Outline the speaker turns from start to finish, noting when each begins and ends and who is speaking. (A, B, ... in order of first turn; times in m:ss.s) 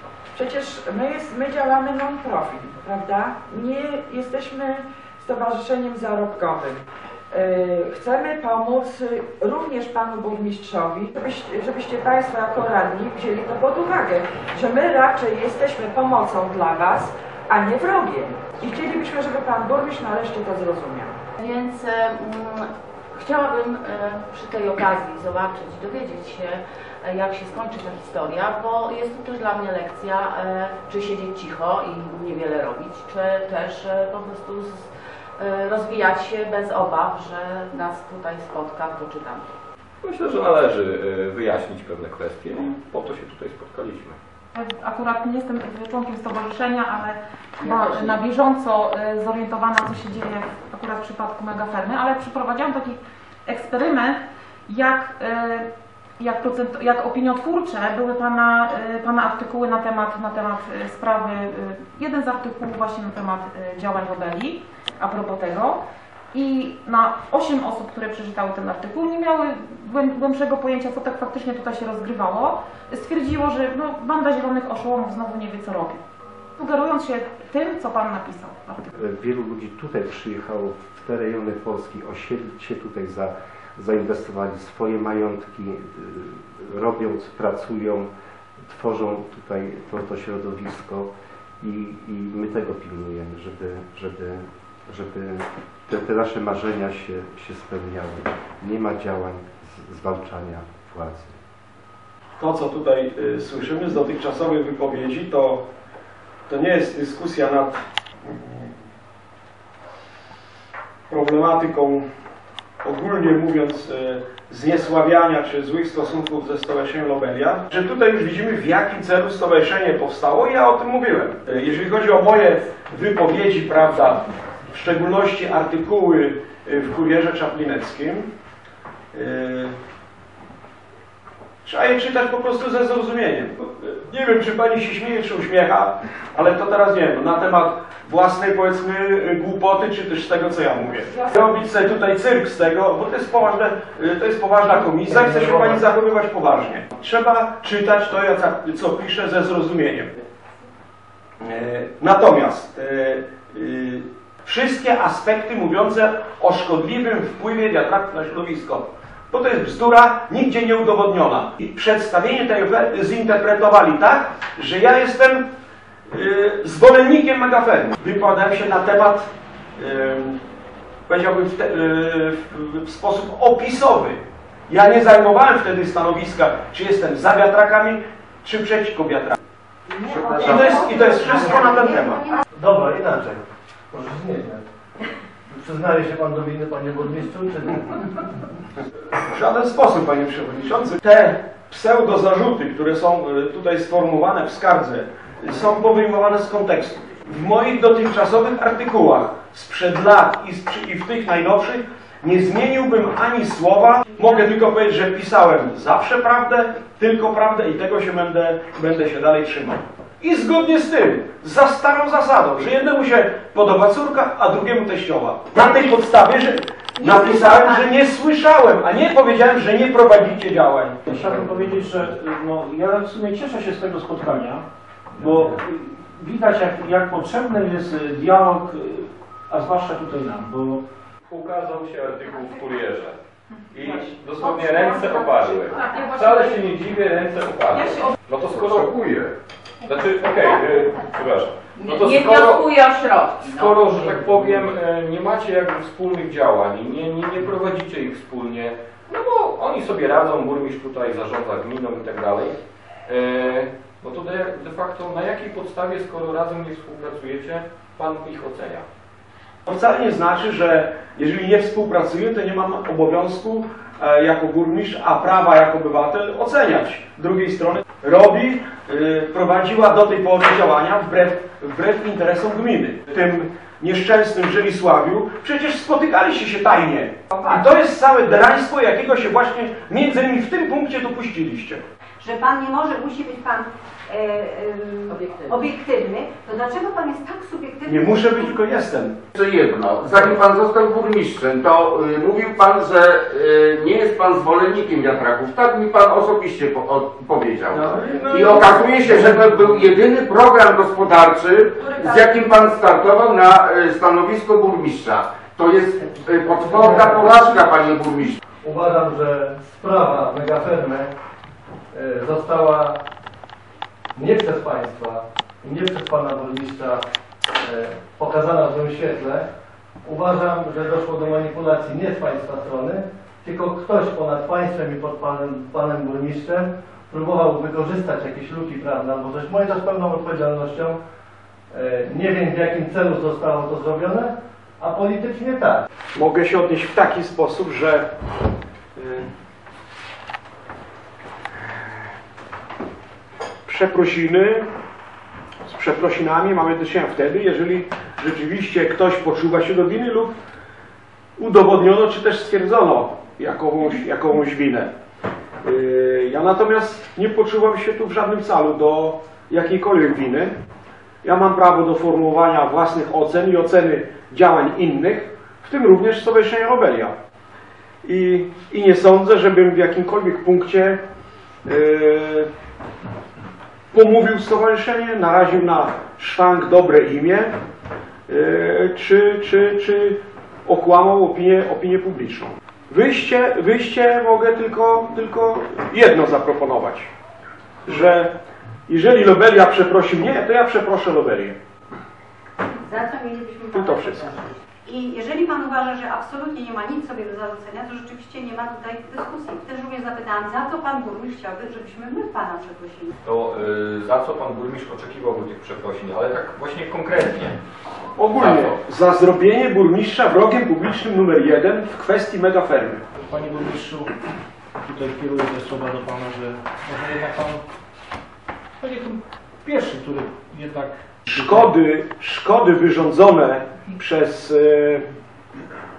0:00.3-0:06.8 A
0:07.3-0:21.1 A
0:21.4-0:39.5 B
0:40.0-0:44.2 C
0:44.6-0:47.1 D
0:47.6-0:48.2 B
0:47.6-0:53.0 D
0:53.5-0:54.2 D
0:54.7-0:55.6 D
0:56.2-1:05.7 D
1:06.4-1:15.9 D
1:16.6-1:18.6 D
1:18.9-1:28.1 E
1:28.7-1:31.1 E
1:31.6-1:41.4 E
1:42.4-1:45.6 F
1:46.5-1:48.7 F
1:51.1-1:52.0 F
1:52.8-2:08.3 F
2:09.1-2:09.7 F
2:11.6-2:30.1 F
2:25.1-2:25.8 G
2:31.4-2:45.4 F
2:46.1-2:50.4 F
2:51.1-2:59.4 F
2:59.9-3:02.4 H
3:00.4-3:02.3 F
3:02.5-3:04.6 G
3:05.5-3:08.2 G
3:09.3-3:41.0 F
3:37.0-3:37.8 H
3:41.0-3:50.8 I
3:51.3-3:53.2 C
3:53.7-3:58.9 C
3:58.5-3:59.3 J
3:59.8-4:02.6 C
4:01.8-4:03.7 B
4:03.4-4:18.8 C
4:19.6-4:41.8 F
4:42.2-4:48.6 H
4:47.8-4:49.2 F
4:49.3-5:08.4 J
4:57.7-4:58.9 F
5:06.4-5:07.3 G
5:08.6-5:11.1 G
5:11.9-5:13.0 G
5:14.1-5:17.0 G
5:17.6-5:19.5 G
5:20.0-5:31.0 G
5:31.7-5:35.8 G
5:36.1-5:38.0 F
5:39.0-5:39.3 F
5:43.7-5:44.7 F
5:45.7-5:50.3 F
5:51.4-5:54.9 F
5:55.6-6:00.5 F
6:01.2-6:07.1 F
6:08.0-6:11.0 F
6:11.6-6:12.5 F
6:13.9-6:17.5 F
6:18.3-6:27.1 F
6:27.8-6:28.3 F
6:28.9-6:31.6 F
6:32.8-6:43.1 H
6:33.7-6:34.3 F
6:43.2-6:47.6 C
6:48.2-6:53.0 F
6:48.4-6:48.7 C
6:53.2-6:54.1 I
6:54.8-6:57.6 I
6:58.8-7:01.8 I
7:01.3-7:05.0 F